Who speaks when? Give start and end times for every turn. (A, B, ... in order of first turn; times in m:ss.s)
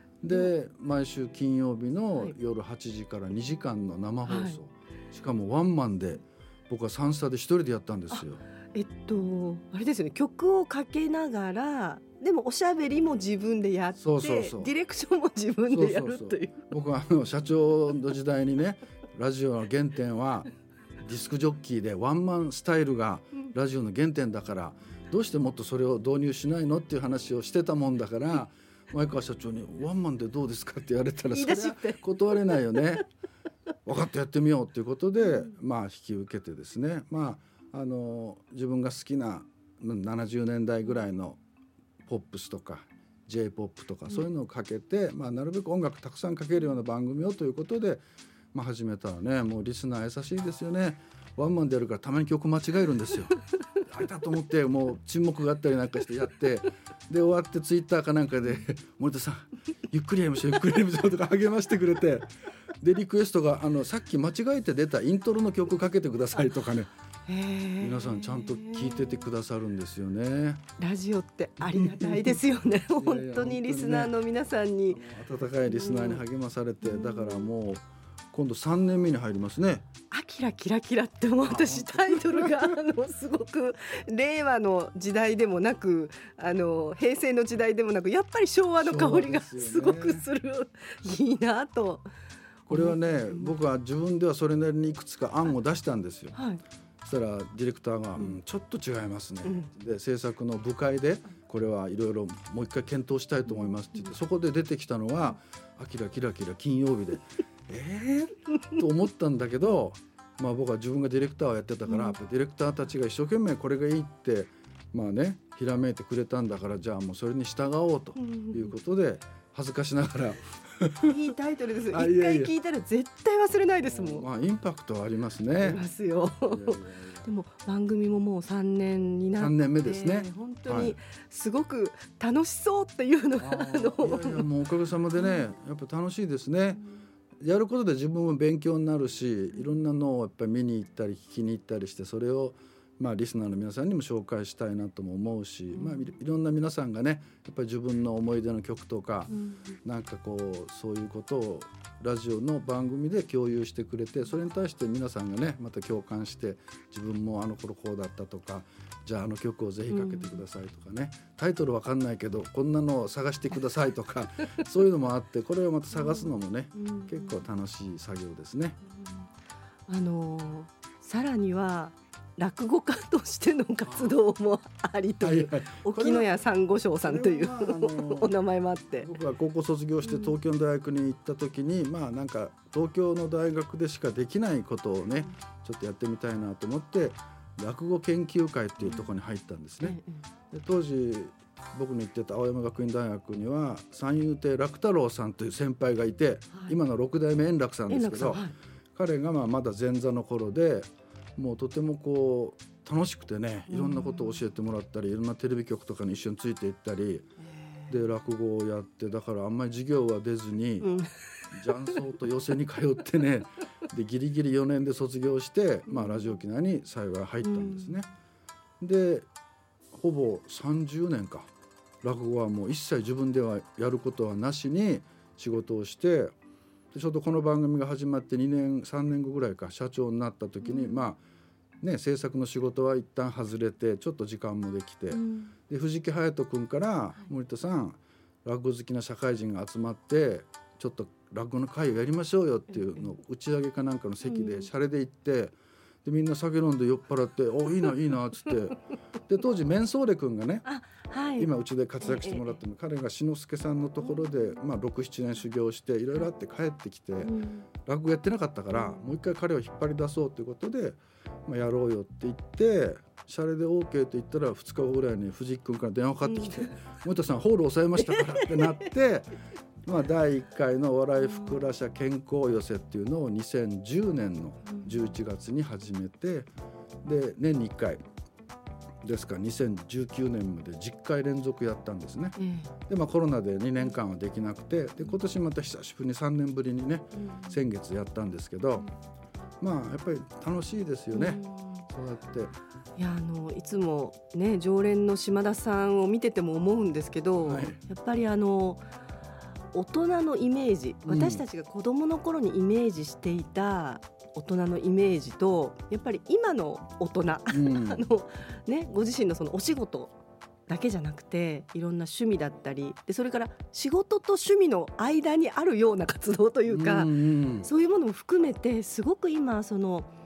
0:00.2-0:08.4 A
0:04.2-0:04.6 B
0:08.7-0:16.7 B
0:14.0-0:14.7 A
0:15.7-0:20.5 A
0:21.0-0:33.0 A
0:31.3-0:32.6 B
0:33.8-0:41.4 A
0:35.2-0:35.5 B
0:42.0-1:06.9 A
1:07.3-1:09.2 B
1:07.8-1:10.6 A
1:10.8-1:15.0 B
1:11.7-1:12.4 A
1:13.0-1:14.1 A
1:14.9-1:19.8 A
1:15.6-1:16.2 B
1:16.8-1:17.5 B
1:20.1-1:32.1 B
1:21.4-1:22.7 A
1:28.8-1:30.2 A
1:32.7-1:36.3 A
1:32.7-1:33.5 B
1:36.3-1:36.6 B
1:37.0-2:01.2 A
1:39.4-1:39.7 B
1:43.5-1:44.1 B
1:51.8-1:52.2 B
1:58.2-1:58.7 B
2:01.0-2:04.3 B
2:01.9-2:02.5 A
2:03.8-2:05.8 A
2:05.6-2:14.4 B
2:06.4-2:07.3 A
2:09.4-2:11.0 A
2:13.4-2:16.8 A
2:15.2-2:15.4 B
2:16.7-2:17.0 B
2:17.4-2:48.8 A
2:25.7-2:26.0 B
2:29.3-2:29.7 B
2:39.9-2:40.4 B
2:45.9-2:47.4 B
2:49.0-2:49.2 B
2:49.9-2:59.1 B
2:53.9-2:54.1 A
2:55.2-2:56.3 A
2:57.0-2:58.3 A
2:59.0-3:10.0 A
3:00.0-3:00.3 B
3:08.8-3:09.1 B
3:09.8-3:10.2 B
3:10.5-3:18.4 A
3:17.9-3:18.5 B
3:18.9-3:27.3 A
3:23.7-3:24.4 B
3:27.5-3:27.9 B
3:27.9-3:30.9 A
3:30.8-3:31.1 B
3:31.5-3:38.0 A
3:35.9-3:36.3 B
3:37.4-3:37.9 B
3:38.8-3:39.3 A
3:39.9-3:41.5 A
3:42.0-3:46.3 A
3:46.9-3:51.2 A
3:50.6-3:51.0 B
3:51.8-4:10.6 A
3:55.1-3:55.5 B
4:02.7-4:03.1 B
4:04.2-4:04.7 B
4:10.6-4:11.5 B
4:11.4-4:29.3 A
4:12.0-4:12.6 B
4:17.2-4:17.7 B
4:18.7-4:19.0 B
4:26.2-4:26.8 B
4:28.0-4:28.8 B
4:29.8-4:36.5 A
4:31.2-4:31.6 B
4:34.6-4:35.1 B
4:37.0-4:38.0 A
4:39.0-4:42.4 A
4:42.4-4:42.7 B
4:42.9-4:48.9 A
4:47.1-4:47.6 B
4:49.6-4:52.5 A
4:51.1-4:51.8 B
4:53.0-4:58.8 B
4:57.4-4:57.8 A
4:59.7-5:10.2 B
5:01.0-5:01.4 A
5:07.5-5:08.0 A
5:10.7-5:20.1 B
5:16.7-5:17.7 A